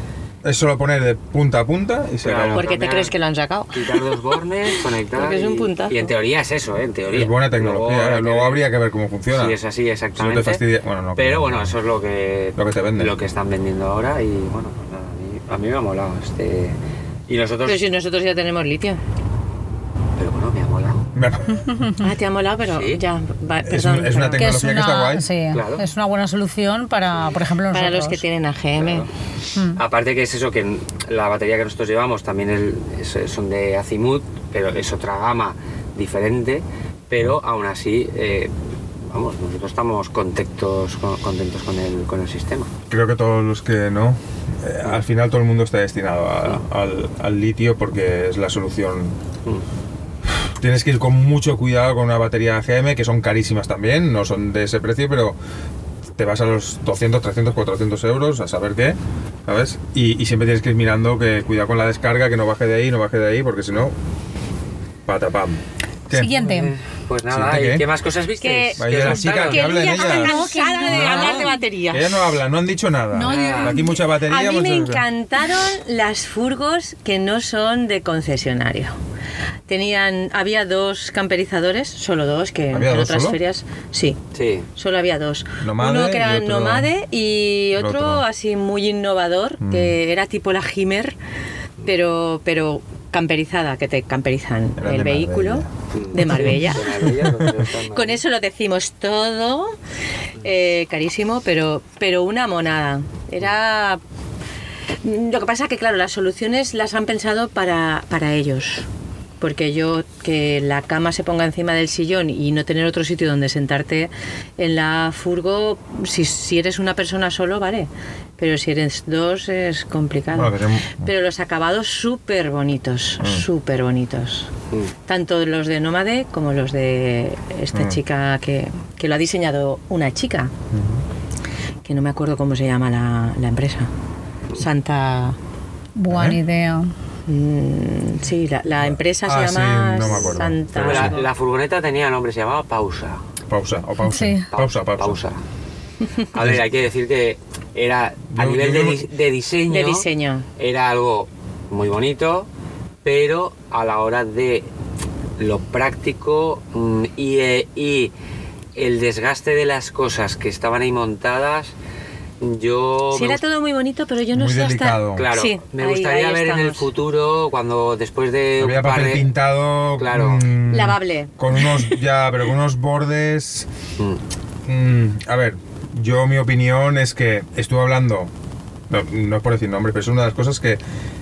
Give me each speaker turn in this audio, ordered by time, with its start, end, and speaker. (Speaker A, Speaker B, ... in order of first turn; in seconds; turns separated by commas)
Speaker A: 0.4-2.7, Speaker B: 2.2-3.1, Speaker C: 2.5-4.2, Speaker B: 3.7-8.6, Speaker C: 5.1-6.1, Speaker A: 7.1-9.6, Speaker B: 9.3-10.6, Speaker A: 10.2-11.7, Speaker B: 11.2-16.8, Speaker A: 12.6-13.1, Speaker B: 17.3-17.8, Speaker C: 17.6-19.0, Speaker B: 20.2-21.1, Speaker A: 21.1-21.7, Speaker D: 21.6-22.1, Speaker C: 22.0-24.5, Speaker B: 22.7-23.0, Speaker A: 23.6-25.3, Speaker D: 24.4-28.2, Speaker B: 25.5-25.8, Speaker B: 27.1-27.4, Speaker C: 27.7-29.1, Speaker B: 28.8-29.1, Speaker D: 29.5-29.8, Speaker B: 29.7-38.5, Speaker B: 39.0-42.7, Speaker A: 42.9-49.2, Speaker A: 50.3-55.4, Speaker A: 56.2-63.9, Speaker A: 65.0-66.3, Speaker D: 66.1-66.7, Speaker B: 66.3-69.7, Speaker A: 67.3-67.8, Speaker C: 68.4-72.3, Speaker A: 68.8-70.3, Speaker D: 69.9-71.6, Speaker A: 70.9-71.4, Speaker B: 71.0-71.4, Speaker A: 71.9-75.0, Speaker D: 73.1-74.0, Speaker B: 73.2-73.8, Speaker C: 74.2-79.0, Speaker C: 79.7-84.2, Speaker A: 82.7-83.4, Speaker B: 84.3-84.7, Speaker C: 84.7-91.2, Speaker A: 85.6-86.9, Speaker A: 87.8-88.2, Speaker A: 89.6-89.9, Speaker C: 91.8-96.9, Speaker A: 94.8-95.7, Speaker B: 95.9-98.2, Speaker A: 96.2-97.6, Speaker C: 97.9-99.7, Speaker C: 100.4-104.0, Speaker C: 105.0-108.9, Speaker C: 109.4-124.5, Speaker A: 120.3-121.1, Speaker A: 123.2-123.4, Speaker C: 125.0-130.5, Speaker A: 127.7-128.0, Speaker A: 130.7-131.0, Speaker C: 131.8-133.9, Speaker C: 134.6-135.4, Speaker D: 135.9-136.9, Speaker A: 136.1-136.4, Speaker C: 137.3-141.3, Speaker A: 138.8-141.2, Speaker B: 140.8-143.2, Speaker A: 143.5-145.2, Speaker D: 144.0-144.4, Speaker B: 144.5-145.4, Speaker B: 146.3-152.5, Speaker A: 148.3-149.1, Speaker C: 149.7-150.4, Speaker B: 153.0-154.7, Speaker B: 155.4-158.1, Speaker B: 158.7-161.7, Speaker B: 162.4-163.4, Speaker C: 163.1-166.8, Speaker A: 164.3-165.3, Speaker B: 165.1-169.3, Speaker A: 168.6-173.7, Speaker B: 170.0-170.5, Speaker C: 170.7-171.9, Speaker A: 174.6-178.3, Speaker A: 178.9-180.8